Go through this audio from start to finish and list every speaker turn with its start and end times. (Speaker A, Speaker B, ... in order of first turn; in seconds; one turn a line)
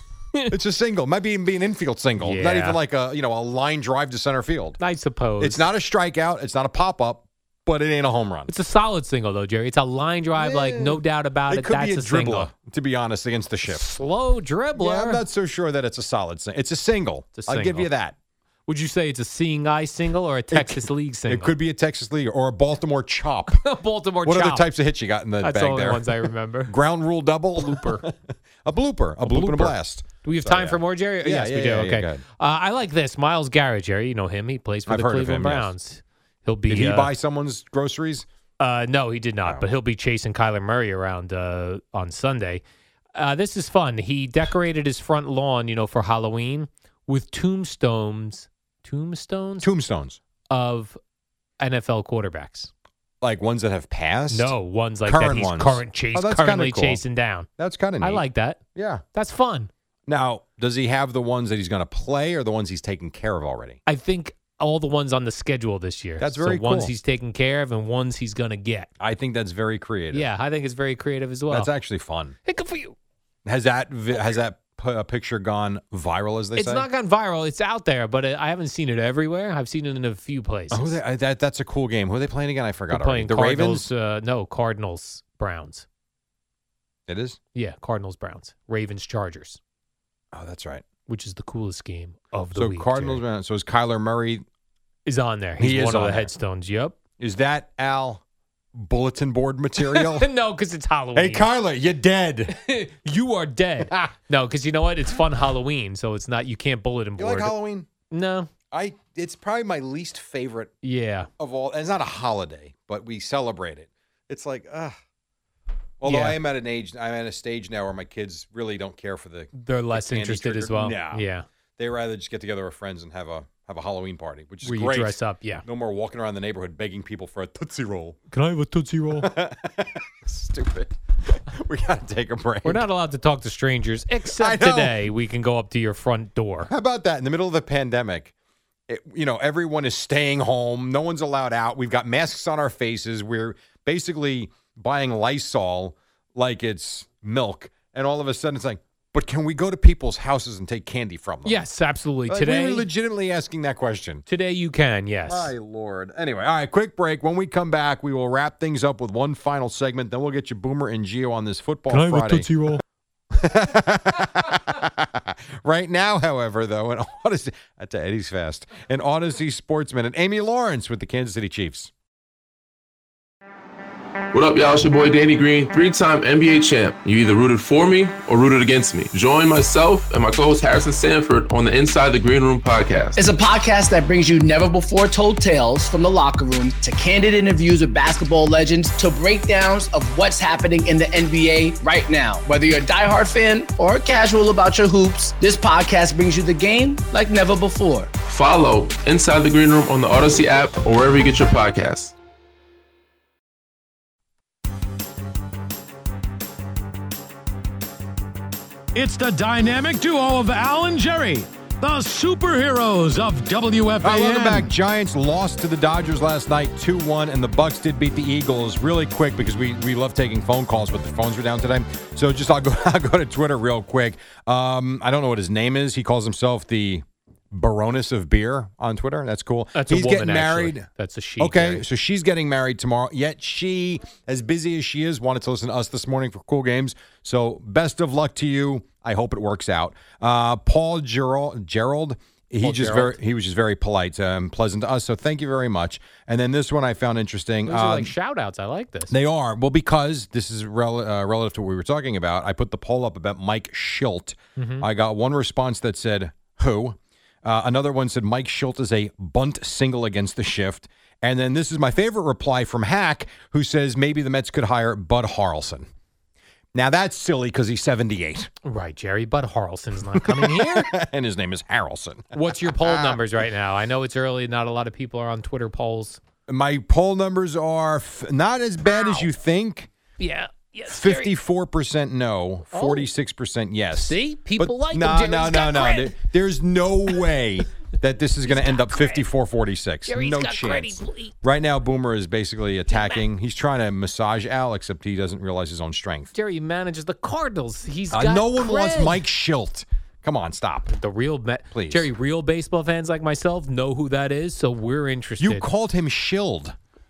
Speaker A: 0.5-4.8
Speaker B: 2.2-2.8
Speaker B: 4.8-5.7
Speaker A: 5.4-8.5
Speaker B: 8.5-12.5
Speaker A: 10.3-13.8
Speaker B: 13.7-15.2
Speaker A: 14.8-18.1
Speaker B: 17.4-17.9
Speaker B: 18.7-21.5
Speaker A: 20.5-23.6
Speaker B: 23.5-24.6
Speaker A: 24.2-32.2
Speaker B: 25.4-26.8
Speaker B: 27.6-28.0
Speaker B: 29.2-37.1
Speaker A: 34.9-35.7
Speaker A: 36.7-38.3
Speaker B: 38.6-42.6
Speaker B: 43.1-49.7
Speaker A: 49.6-50.2
Speaker B: 50.5-51.0
Speaker B: 51.6-52.7
Speaker A: 53.2-54.5
Speaker B: 54.3-57.5
Speaker A: 55.0-57.0
Speaker A: 57.6-58.2
Speaker B: 58.0-58.6
Speaker A: 58.8-59.0
Speaker B: 59.1-59.7
Speaker A: 60.1-63.8
Speaker B: 63.9-68.9
Speaker A: 66.2-66.9
Speaker A: 69.0-70.3
Speaker B: 70.1-71.7
Speaker A: 71.5-72.4
Speaker B: 72.5-73.0
Speaker A: 73.4-76.8
Speaker B: 76.5-81.0
Speaker A: 80.7-83.9
Speaker B: 82.9-85.8
Speaker A: 87.1-87.4
Speaker B: 87.5-89.6
Speaker A: 90.3-90.8
Speaker B: 91.1-93.2
Speaker A: 92.5-94.4
Speaker B: 95.0-97.0
Speaker A: 95.6-96.3
Speaker A: 97.2-98.2
Speaker A: 98.7-100.3
Speaker B: 99.8-101.5
Speaker A: 101.1-102.5
Speaker B: 102.5-107.5
Speaker A: 107.2-107.9
Speaker B: 108.1-108.5
Speaker A: 108.7-110.7
Speaker B: 110.8-111.3
Speaker A: 111.4-115.0
Speaker A: 116.0-121.2
Speaker B: 116.0-116.4
Speaker B: 119.5-121.4
Speaker A: 121.8-128.2
Speaker B: 124.6-125.6
Speaker B: 128.3-129.3
Speaker A: 129.1-132.8
Speaker B: 132.6-136.7
Speaker A: 134.3-135.0
Speaker A: 136.7-138.3
Speaker A: 138.9-151.6
Speaker B: 151.4-152.8
Speaker A: 152.3-154.2
Speaker B: 154.3-155.5
Speaker A: 155.3-162.5
Speaker B: 161.9-162.8
Speaker A: 163.3-171.9
Speaker C: 174.3-183.3
Speaker D: 183.2-198.1
Speaker C: 198.2-202.1
Speaker E: 208.9-214.7
Speaker A: 214.0-230.8
Speaker B: 229.7-231.8
Speaker A: 231.4-248.1
Speaker B: 242.6-243.2
Speaker B: 247.7-249.1
Speaker A: 249.1-265.9
Speaker B: 254.6-254.9
Speaker A: 266.7-268.5
Speaker B: 268.6-270.9
Speaker A: 270.1-273.3
Speaker B: 272.3-276.2
Speaker A: 276.5-279.9
Speaker B: 278.9-279.3
Speaker B: 280.2-281.3
Speaker A: 280.9-296.3
Speaker B: 282.7-283.1
Speaker B: 283.9-286.2
Speaker B: 288.4-289.2
Speaker B: 290.1-291.3
Speaker B: 292.9-293.2
Speaker B: 296.3-299.2
Speaker A: 298.1-300.9
Speaker B: 300.9-305.7
Speaker A: 301.7-302.1
Speaker A: 305.4-306.8